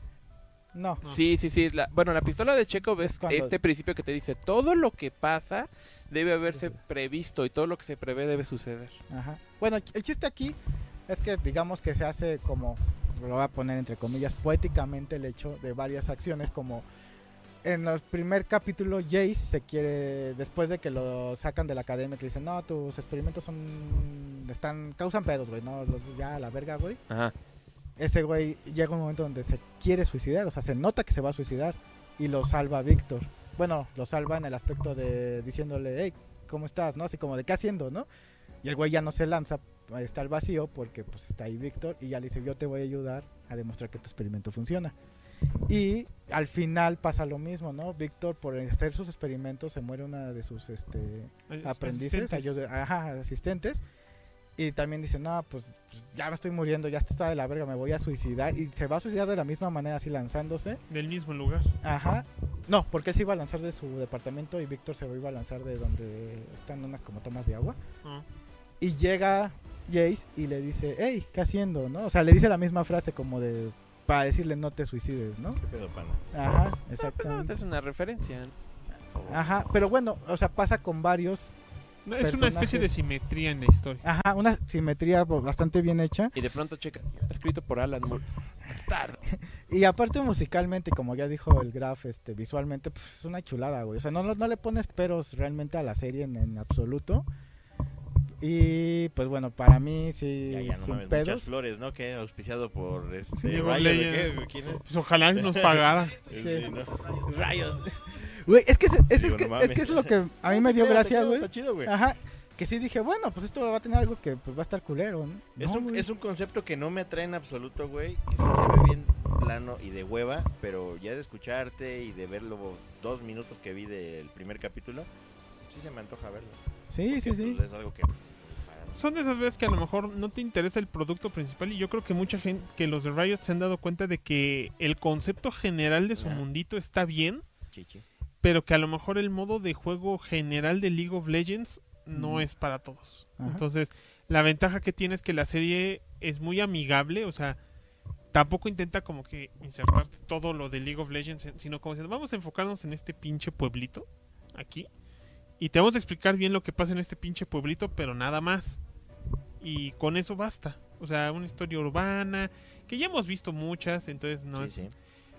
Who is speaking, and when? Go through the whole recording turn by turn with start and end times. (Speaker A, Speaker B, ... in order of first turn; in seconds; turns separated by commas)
Speaker A: 0.7-1.0, Speaker B: 1.0-9.0, Speaker A: 3.0-3.5, Speaker A: 6.5-6.7, Speaker A: 9.1-16.9, Speaker A: 17.6-27.0, Speaker A: 28.0-38.1, Speaker A: 38.6-44.9, Speaker A: 45.7-53.8, Speaker C: 51.5-52.6, Speaker A: 54.6-60.8, Speaker C: 60.9-61.7, Speaker A: 61.8-67.8, Speaker A: 68.8-75.6, Speaker D: 75.6-76.2, Speaker A: 76.3-77.5, Speaker B: 77.0-78.5, Speaker B: 79.1-79.5, Speaker A: 79.2-81.5, Speaker C: 82.0-84.0, Speaker A: 82.2-82.9, Speaker A: 84.0-86.3, Speaker B: 86.3-89.2, Speaker A: 89.7-97.3, Speaker A: 98.4-101.5, Speaker D: 100.5-108.2, Speaker A: 103.4-103.7, Speaker C: 103.5-106.2, Speaker A: 106.3-106.7, Speaker A: 108.2-116.1, Speaker D: 109.1-111.9, Speaker D: 115.6-125.1, Speaker D: 125.7-129.1, Speaker A: 126.9-127.6, Speaker C: 128.9-137.4, Speaker D: 136.1-136.4, Speaker D: 137.7-138.0, Speaker C: 138.4-147.6, Speaker A: 142.1-142.5, Speaker A: 143.4-143.6, Speaker C: 148.3-154.9, Speaker C: 155.6-158.8, Speaker C: 159.6-164.9, Speaker D: 164.5-164.9